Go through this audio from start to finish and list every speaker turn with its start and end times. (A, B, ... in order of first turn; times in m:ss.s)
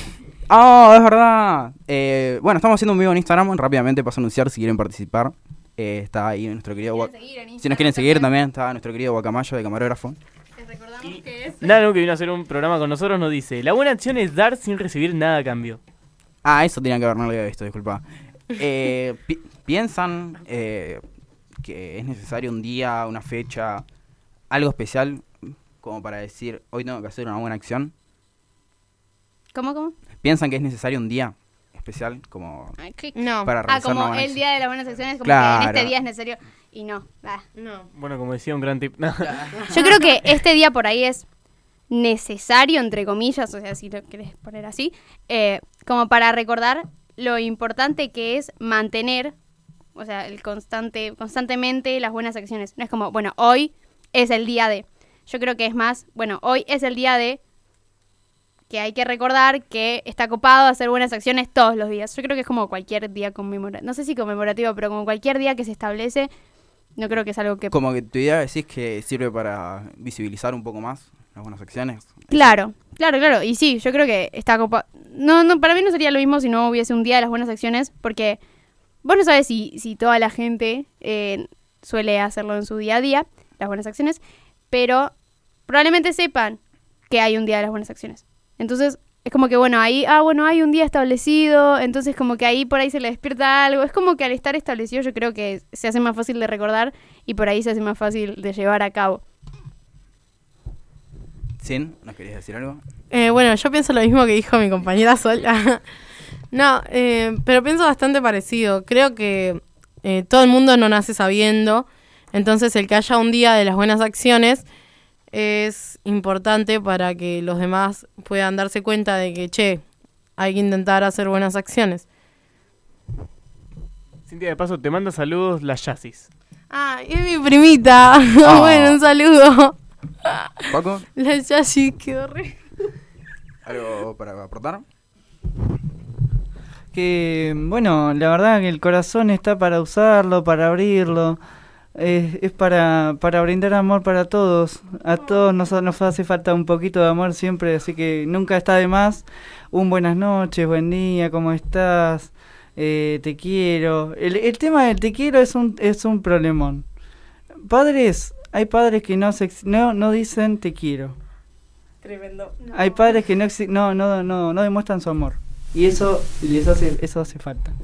0:00.5-0:10.2 A
0:06.9-0:08.3 B
0:10.6-0:11.8 B
0:11.0-0:15.8 C
0:16.4-0:18.0 A
0:18.6-0:21.0 A
0:21.6-0:23.8 A
0:24.5-0:27.9 A
0:29.5-0:30.0 B
0:30.2-0:32.8 A
0:32.8-0:33.2 B
0:33.2-0:33.5 D
0:33.4-0:34.4 A
0:33.7-0:37.4 B
0:35.2-0:35.9 A
0:37.6-0:37.9 D
0:37.9-0:39.4 C
0:39.2-0:39.9 A
0:39.7-0:41.2 B
0:41.9-0:49.3 B
0:50.0-0:57.4 B
0:58.7-1:06.3 B
1:07.0-1:07.7 B
1:07.7-1:12.6 A
1:12.3-1:18.4 B
1:19.0-1:25.1 B
1:25.7-1:39.2 B
1:41.6-1:42.8 A
1:43.1-1:45.8 D
1:46.5-1:54.7 D
1:55.3-1:59.8 D
2:00.4-2:02.0 D
2:04.3-2:06.3 C
2:06.7-2:10.5 D
2:08.5-2:08.8 A
2:10.7-2:11.0 A
2:11.2-2:12.5 D
2:13.6-2:14.8 A
2:16.9-2:21.4 E
2:22.0-2:36.8 E
2:37.6-2:41.2 E
2:42.7-2:47.7 E